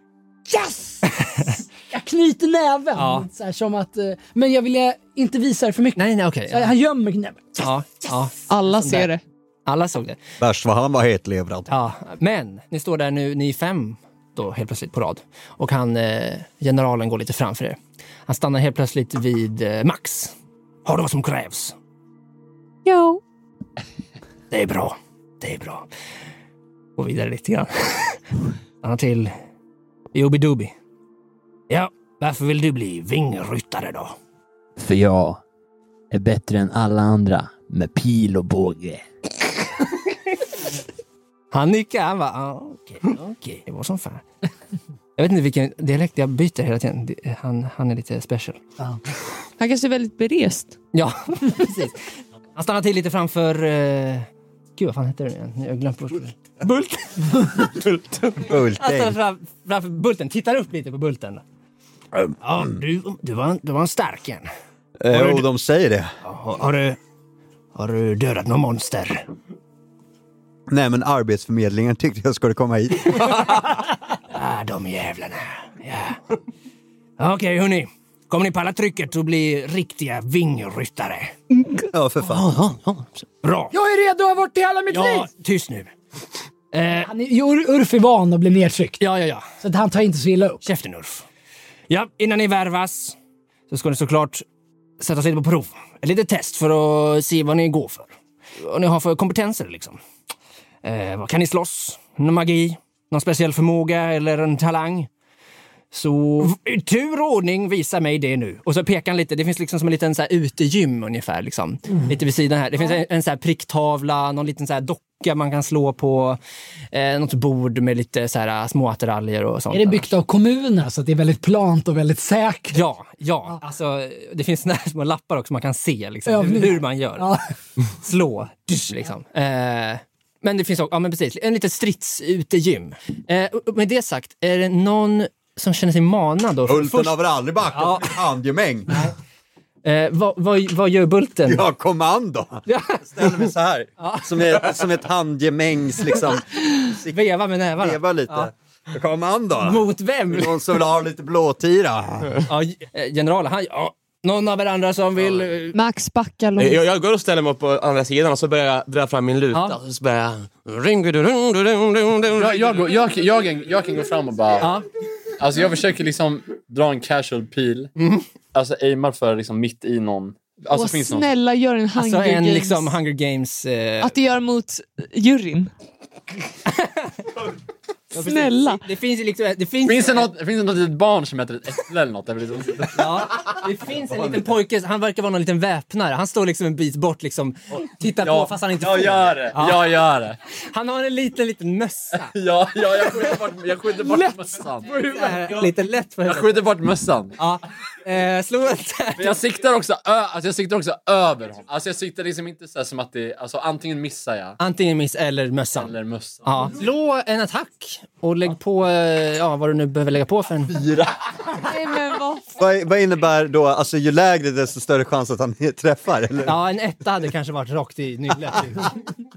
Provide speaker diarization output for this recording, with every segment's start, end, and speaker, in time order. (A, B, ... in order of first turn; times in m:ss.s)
0:00.5-0:07.7 A
0:01.0-0:01.5 B
0:02.9-0:03.3 B
0:06.0-0:06.7 B
0:07.6-0:09.1 B
0:08.5-0:09.2 C
0:09.6-0:10.2 B
0:10.4-0:11.7 D
0:11.7-0:20.3 B
0:20.8-0:21.7 B
0:22.8-0:23.2 C
0:24.5-0:25.9 B
0:27.0-0:28.2 B
0:28.8-0:29.3 B
0:30.1-0:30.7 B
0:31.7-0:34.2 B
0:34.8-0:35.4 E
0:36.1-0:39.0 E
0:41.5-0:44.2 B
0:45.2-0:48.6 B
0:49.6-0:50.8 C
0:50.9-0:52.0 B
0:52.6-1:01.4 B
0:58.4-0:59.2 D
1:02.4-1:04.5 B
1:05.0-1:06.1 D
1:05.1-1:05.4 B
1:06.2-1:07.0 B
1:07.7-1:09.3 B
1:10.7-1:13.8 D
1:14.3-1:16.2 B
1:17.2-1:21.3 B
1:21.9-1:22.5 D
1:22.8-1:23.2 F
1:23.4-1:23.7 B
1:23.7-1:25.3 A
1:24.9-1:25.9 B
1:26.7-1:27.1 B
1:27.0-1:29.0 A
1:29.0-1:29.4 B
1:29.6-1:30.6 A
1:30.6-1:31.2 B
1:31.9-1:33.2 B
1:33.7-1:34.4 B
1:35.0-1:40.0 B
1:40.8-1:45.1 B
1:45.9-1:56.4 B
1:56.9-2:00.1 B
1:59.7-2:02.8 A
2:02.7-2:07.3 B
2:06.2-2:07.4 A
2:08.0-2:17.2 B
2:16.7-2:19.0 D
2:17.7-2:18.2 B
2:19.8-2:21.6 B
2:21.4-2:32.3 D
2:22.7-2:24.8 B
2:27.1-2:28.5 B
2:29.6-2:30.6 B
2:32.4-2:35.8 B
2:35.7-2:36.8 C
2:36.6-2:42.8 F
2:39.5-2:39.8 B
2:42.4-2:44.7 E
2:44.6-2:44.8 B
2:45.4-2:47.9 E
2:48.0-2:48.2 B
2:48.5-2:51.3 E
2:50.7-2:53.0 C
2:52.0-2:54.1 B
2:54.0-2:55.7 C
2:56.6-2:57.4 B
2:58.1-2:58.8 C
2:58.1-3:00.3 B
2:59.8-3:03.4 E
3:02.9-3:09.9 B
3:08.2-3:10.4 E
3:10.7-3:12.3 B
3:12.2-3:15.6 E
3:14.8-3:16.6 B
3:16.2-3:17.4 E
3:17.4-3:19.4 B
3:19.2-3:24.6 E
3:24.6-3:30.8 B
3:25.8-3:26.7 E
3:30.7-3:31.6 D
3:31.6-3:32.5 C
3:32.6-3:36.6 D
3:36.4-3:39.0 B